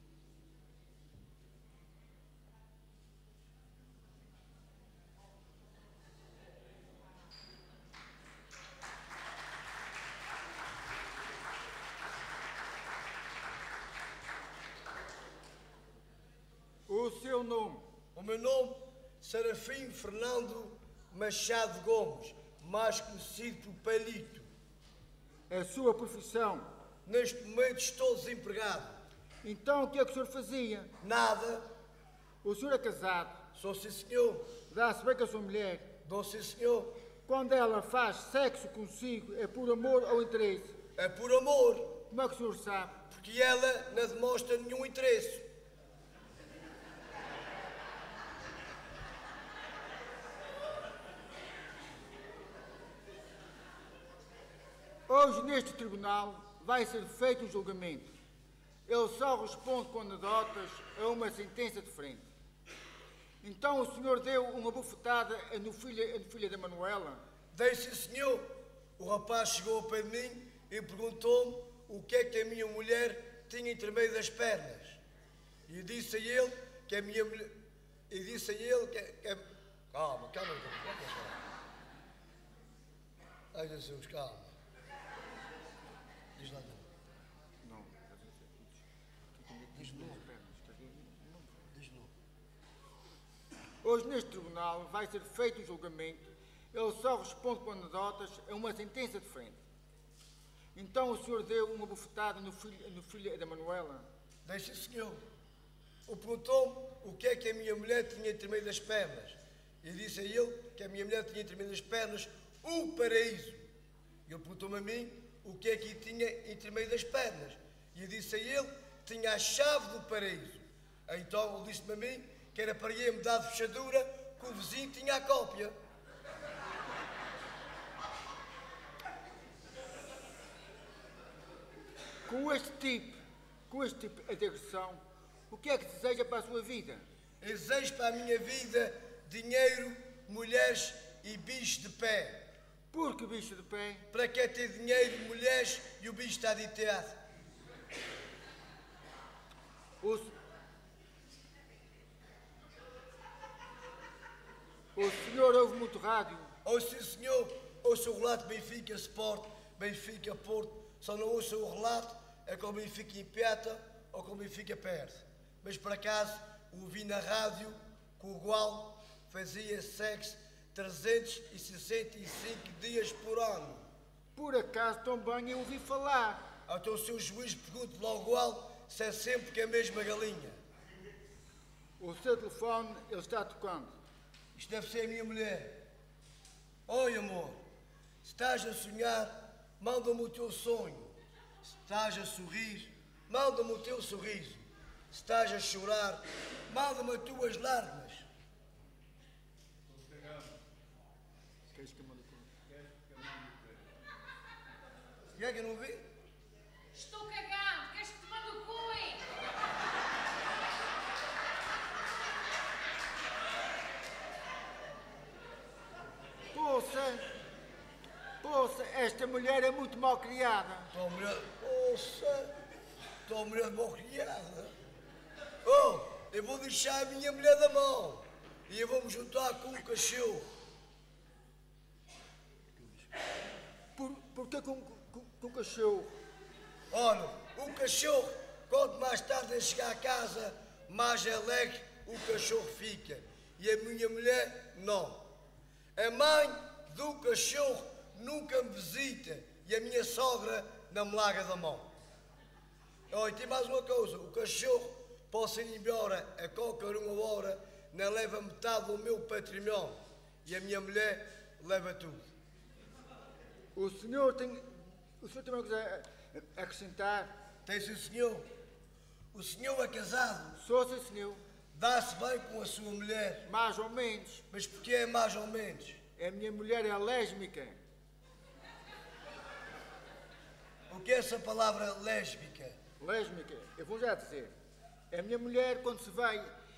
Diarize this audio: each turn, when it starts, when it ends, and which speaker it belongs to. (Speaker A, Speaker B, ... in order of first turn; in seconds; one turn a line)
Speaker A: 16.9-17.8
Speaker B: 18.1-24.5
Speaker A: 25.5-26.7
Speaker B: 27.0-28.9
Speaker A: 29.4-30.9
Speaker B: 31.0-31.6
Speaker A: 32.4-33.4
Speaker B: 33.5-34.5
Speaker A: 34.7-35.9
Speaker B: 36.0-36.9
Speaker A: 37.2-40.8
Speaker B: 41.0-42.0
Speaker A: 42.1-43.0
Speaker B: 43.1-45.4
Speaker A: 55.1-58.1
Speaker A: 58.9-62.2
Speaker A: 63.4-67.2
Speaker B: 67.5-75.0
Speaker B: 75.7-77.6
Speaker B: 78.1-81.4
Speaker B: 83.5-84.5
Speaker B: 86.3-86.8
Speaker A: 87.6-88.8
Speaker A: 89.3-91.7
Speaker B: 89.8-90.2
Speaker B: 91.7-92.1
Speaker A: 93.8-99.6
Speaker A: 100.7-104.0
Speaker B: 104.5-105.2
Speaker B: 106.0-113.6
Speaker B: 114.2-125.7
Speaker A: 132.3-133.2
Speaker A: 133.7-137.0
Speaker B: 137.4-142.5
Speaker A: 142.9-144.1
Speaker B: 144.1-147.2
Speaker A: 154.9-156.5
Speaker B: 156.6-173.8
Speaker A: 174.3-176.4
Speaker B: 176.7-180.6
Speaker A: 182.0-183.9
Speaker B: 184.5-185.8
Speaker B: 186.9-187.6
Speaker B: 188.2-198.2
Speaker A: 201.7-202.5
Speaker B: 205.3-206.0
Speaker C: 206.9-209.2
Speaker A: 216.5-217.2
Speaker A: 218.4-220.9
Speaker B: 220.9-222.5
Speaker B: 223.2-224.7
Speaker B: 225.6-230.4
Speaker A: 234.0-236.1
Speaker B: 236.9-245.3
Speaker B: 245.9-251.9
Speaker B: 253.1-262.2
Speaker A: 263.7-264.6
Speaker A: 265.2-267.3
Speaker B: 267.6-268.4
Speaker B: 269.3-270.6
Speaker A: 270.6-271.4
Speaker B: 271.7-273.5
Speaker A: 273.4-274.4
Speaker B: 274.5-276.0
Speaker A: 276.2-277.8
Speaker B: 280.9-282.8
Speaker A: 283.0-284.5
Speaker A: 285.1-286.5